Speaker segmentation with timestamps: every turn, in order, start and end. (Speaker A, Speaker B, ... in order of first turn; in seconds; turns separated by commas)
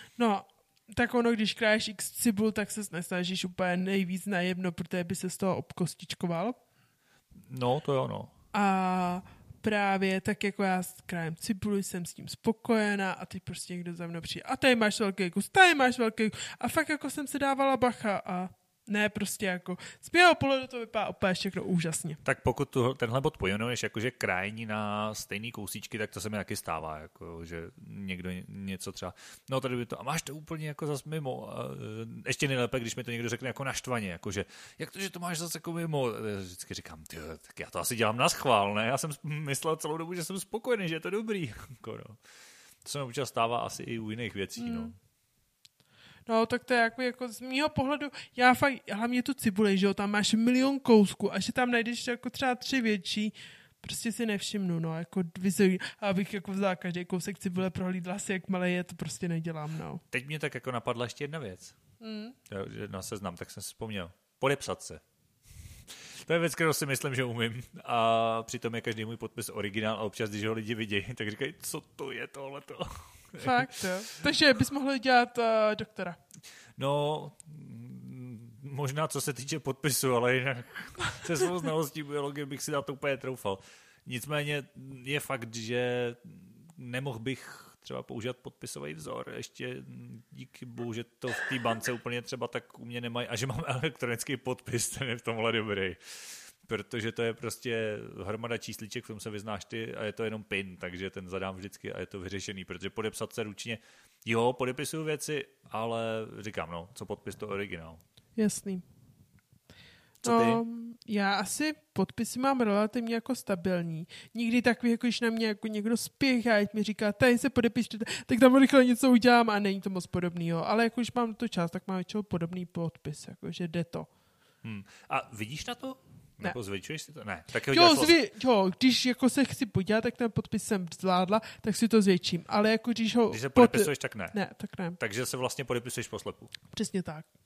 Speaker A: 0.2-6.6, Speaker B: 7.5-8.3, Speaker A: 8.5-22.2, Speaker B: 22.2-42.2, Speaker B: 42.8-44.9, Speaker A: 44.6-44.9, Speaker A: 46.3-60.0, Speaker B: 60.1-61.7, Speaker A: 62.0-62.4, Speaker B: 62.5-65.0, Speaker B: 66.0-73.7, Speaker A: 73.4-76.2, Speaker B: 76.8-108.0, Speaker A: 108.4-108.8, Speaker B: 110.2-110.6, Speaker A: 110.2-124.1, Speaker B: 124.6-128.2, Speaker A: 127.7-135.0, Speaker B: 133.3-134.4, Speaker B: 135.0-136.5, Speaker A: 136.7-137.3